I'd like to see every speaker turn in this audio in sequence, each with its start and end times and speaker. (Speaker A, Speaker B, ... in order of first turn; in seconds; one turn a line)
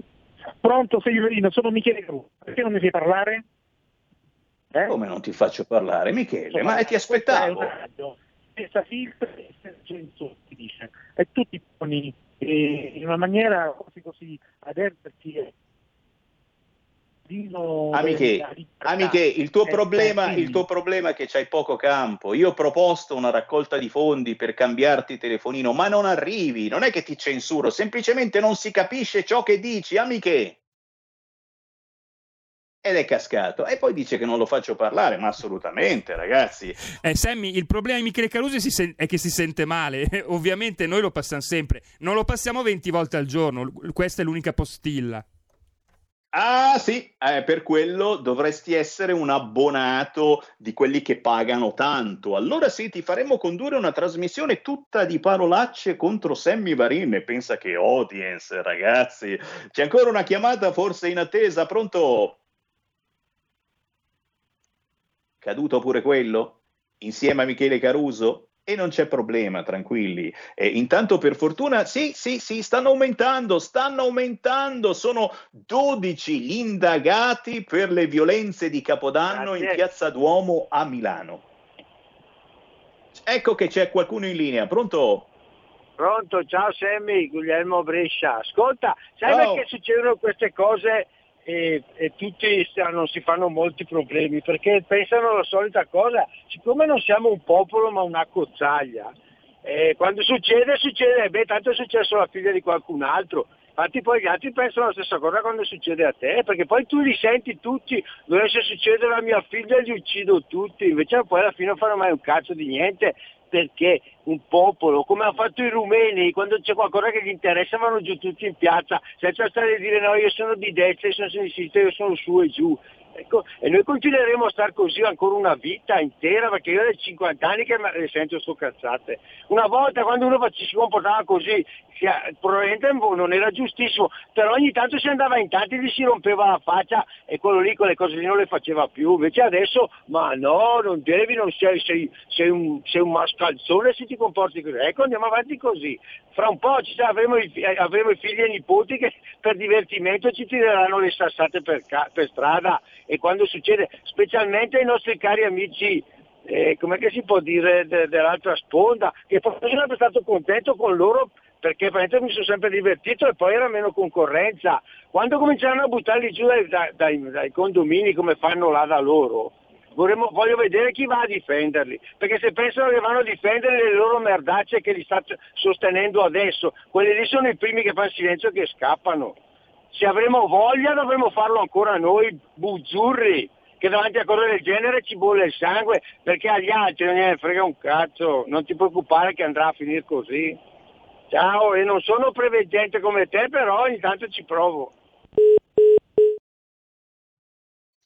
Speaker A: 0.6-3.4
Speaker B: 4.8-7.7
Speaker A: 6.5-15.5
Speaker A: 17.2-20.6
Speaker B: 17.9-30.6
Speaker B: 32.8-36.8
Speaker C: 37.0-45.2
Speaker B: 46.3-62.4
Speaker B: 65.4-81.5
Speaker D: 79.3-79.7
Speaker B: 83.1-85.3
Speaker D: 86.0-99.1
Speaker B: 89.3-89.5
Speaker D: 99.6-179.3
Speaker D: 179.9-190.6
Speaker D: 191.3-194.9